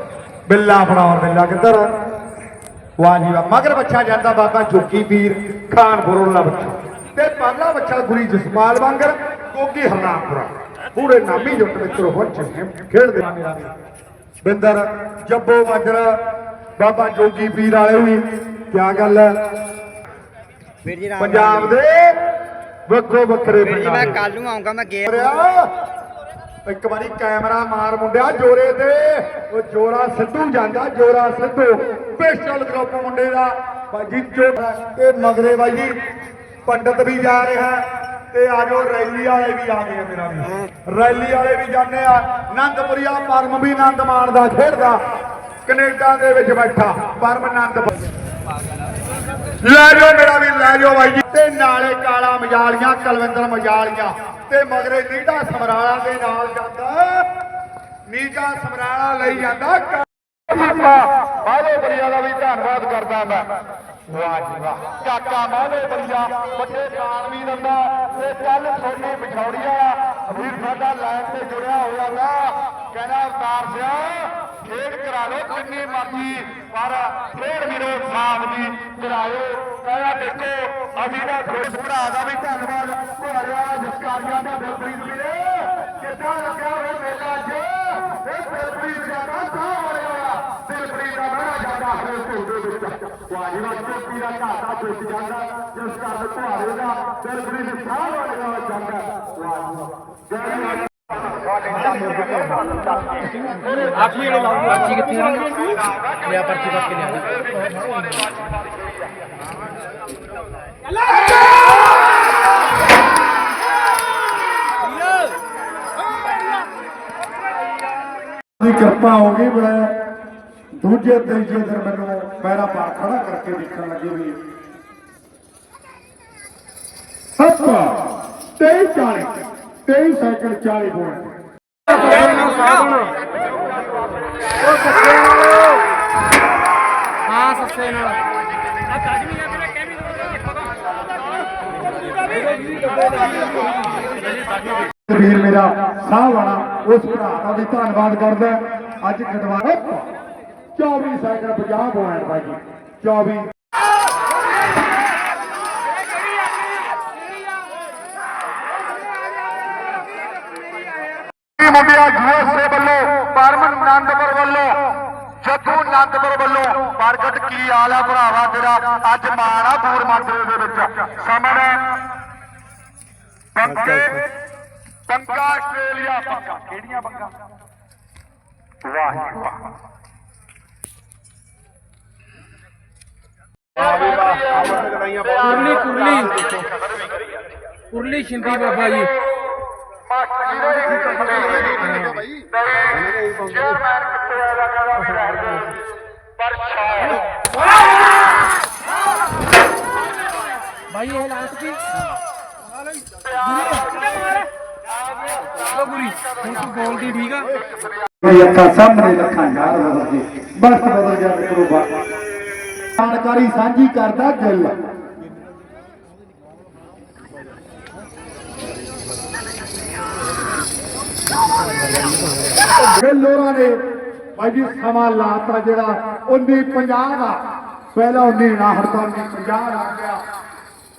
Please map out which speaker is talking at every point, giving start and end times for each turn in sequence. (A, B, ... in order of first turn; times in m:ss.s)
0:00.5-0:01.9 A
0:03.0-0:13.7 A
0:14.4-0:16.2 A
0:16.8-0:19.4 A
0:20.8-0:21.8 B
0:21.2-0:22.2 A
0:22.9-0:24.2 A
0:23.6-0:25.3 B
0:25.0-0:25.7 A
0:26.6-0:35.9 A
0:36.6-0:45.0 A
0:45.6-0:48.0 A
0:49.6-0:57.3 A
0:58.1-1:03.5 A
1:04.1-1:42.7 A
1:44.0-1:47.4 C
1:58.6-2:00.0 A
2:00.8-2:04.4 A
2:07.4-2:08.0 A
2:08.6-2:09.3 A
2:09.8-2:11.3 A
2:11.9-2:13.1 C
2:17.3-2:18.2 C
2:22.8-2:23.4 C
2:25.0-2:30.1 A
2:30.8-2:33.5 A
2:41.6-2:44.8 A
2:45.4-2:51.9 A
2:53.5-2:54.2 A
2:55.1-2:57.3 A
2:58.9-2:59.5 A
3:03.8-3:05.4 A
3:05.4-3:06.6 C
3:07.9-3:09.1 C
3:10.4-3:11.1 A
3:11.7-3:12.2 C
3:13.4-3:15.0 A
3:16.8-3:17.0 A
3:20.9-3:21.8 C
3:23.5-3:23.8 C
3:25.7-3:27.5 C
3:28.2-3:32.0 A
3:33.0-3:34.7 A
3:42.9-3:43.8 A
3:44.4-3:47.4 A
3:47.9-3:50.2 A